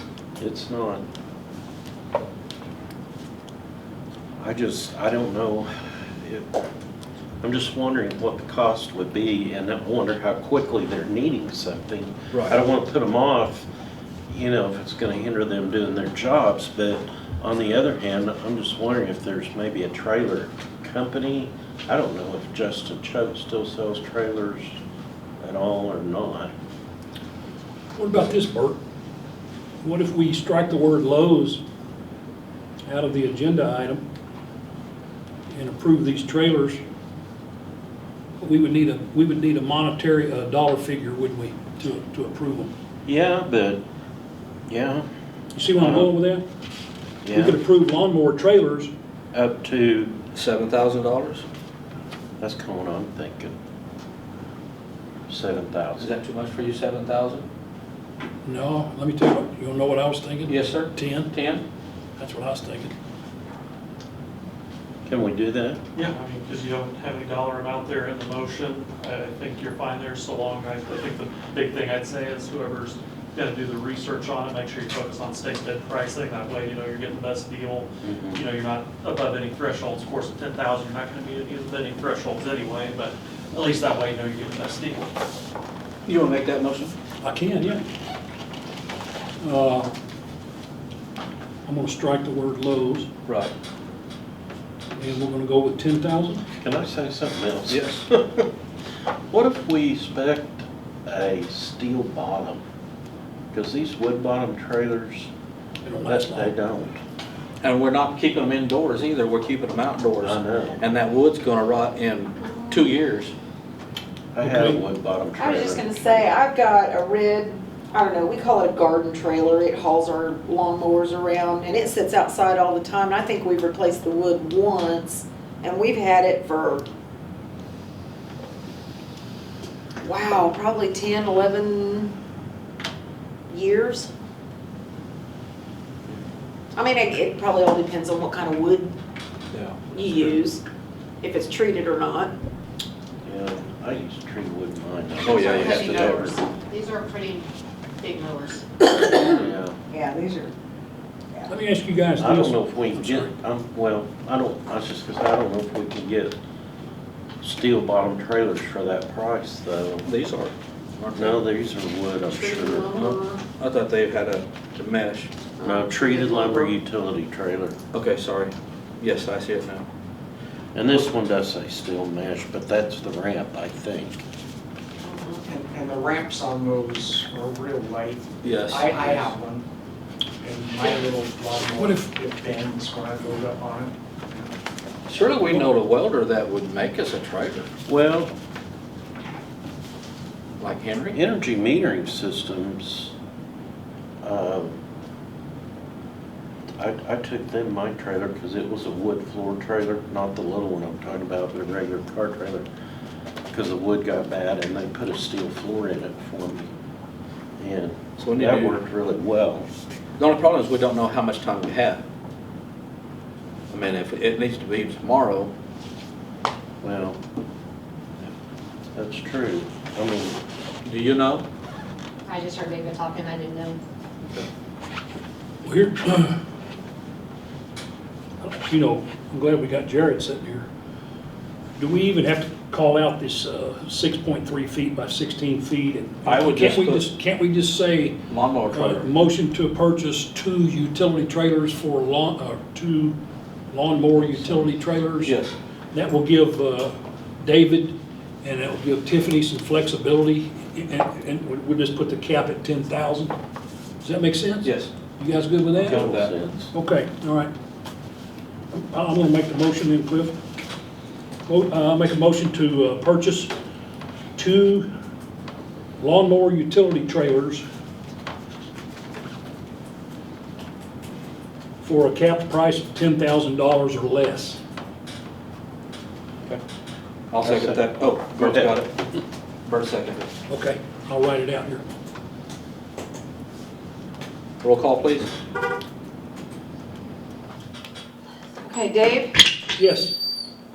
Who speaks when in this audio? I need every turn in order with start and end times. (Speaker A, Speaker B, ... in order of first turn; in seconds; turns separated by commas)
Speaker A: 0.4-1.0, Speaker A: 4.4-6.5, Speaker A: 7.4-13.7, Speaker A: 14.3-24.8, Speaker A: 25.4-26.5, Speaker B: 27.9-28.8, Speaker B: 29.8-31.6, Speaker B: 32.9-34.0, Speaker B: 35.5-36.8, Speaker B: 38.4-42.7, Speaker A: 43.0-43.8, Speaker A: 44.7-45.0, Speaker B: 45.5-46.4, Speaker A: 45.7-46.1, Speaker A: 47.2-47.6, Speaker B: 47.4-48.9, Speaker A: 49.3-50.2, Speaker C: 50.3-51.4, Speaker A: 52.4-53.5, Speaker A: 55.3-56.1, Speaker C: 56.0-57.5, Speaker B: 58.5-61.3, Speaker C: 60.5-61.6, Speaker B: 62.2-62.9, Speaker A: 65.0-65.8, Speaker D: 66.0-77.9, Speaker A: 78.0-78.4, Speaker D: 78.4-85.1, Speaker C: 86.0-87.0, Speaker B: 87.2-87.8, Speaker B: 89.4-89.9, Speaker B: 91.7-93.1, Speaker C: 93.3-93.5, Speaker B: 95.0-96.4, Speaker A: 96.5-98.5, Speaker C: 97.7-98.0, Speaker A: 99.3-102.6, Speaker A: 103.5-105.3, Speaker B: 105.8-106.5, Speaker A: 106.0-107.0, Speaker C: 107.6-113.3, Speaker A: 110.2-110.8, Speaker A: 114.3-116.3, Speaker B: 114.4-114.8, Speaker E: 115.4-126.8, Speaker E: 130.0-132.1, Speaker E: 133.5-134.1, Speaker E: 136.7-138.9, Speaker C: 139.5-139.8, Speaker E: 139.9-140.6, Speaker E: 141.2-142.3, Speaker A: 143.2-146.4, Speaker F: 145.2-147.5, Speaker C: 145.2-146.0, Speaker F: 148.0-148.6, Speaker E: 148.9-149.3, Speaker A: 149.2-149.8, Speaker E: 149.9-150.5, Speaker B: 151.5-153.3, Speaker A: 152.2-156.3, Speaker A: 157.4-160.0, Speaker C: 160.1-161.4, Speaker A: 161.2-163.1, Speaker E: 162.3-163.4, Speaker C: 162.9-165.3, Speaker E: 165.6-166.8, Speaker A: 165.6-167.8, Speaker C: 167.9-169.9, Speaker A: 170.7-174.2, Speaker E: 175.1-175.4, Speaker G: 175.4-179.7, Speaker C: 178.4-179.3, Speaker G: 180.4-184.5, Speaker B: 181.8-182.1, Speaker C: 185.1-187.7, Speaker A: 187.9-188.3, Speaker C: 190.6-191.2, Speaker A: 191.1-193.1, Speaker A: 194.2-194.8, Speaker A: 196.8-202.7, Speaker A: 203.5-206.7, Speaker A: 207.6-209.7, Speaker C: 208.2-208.8, Speaker C: 210.2-212.0, Speaker C: 213.7-215.5, Speaker A: 216.8-217.2, Speaker A: 218.9-220.4, Speaker C: 220.8-221.4, Speaker F: 222.3-223.8, Speaker B: 225.6-226.3, Speaker B: 228.4-230.7, Speaker B: 231.8-238.2, Speaker C: 236.2-237.1, Speaker C: 238.3-239.1, Speaker B: 238.7-243.2, Speaker B: 243.7-245.3, Speaker C: 244.3-244.7, Speaker C: 245.2-245.5, Speaker B: 245.9-253.3, Speaker B: 254.0-255.9, Speaker C: 254.6-254.9, Speaker A: 255.7-256.7, Speaker C: 255.8-256.3, Speaker B: 256.7-257.5, Speaker B: 258.7-260.4, Speaker B: 261.5-263.5, Speaker B: 264.4-264.9, Speaker B: 266.0-267.6, Speaker B: 271.8-274.6, Speaker C: 277.3-279.0, Speaker A: 277.4-278.7, Speaker C: 279.6-280.3, Speaker B: 280.5-281.8, Speaker C: 284.6-285.3, Speaker E: 288.6-289.4, Speaker B: 289.8-290.1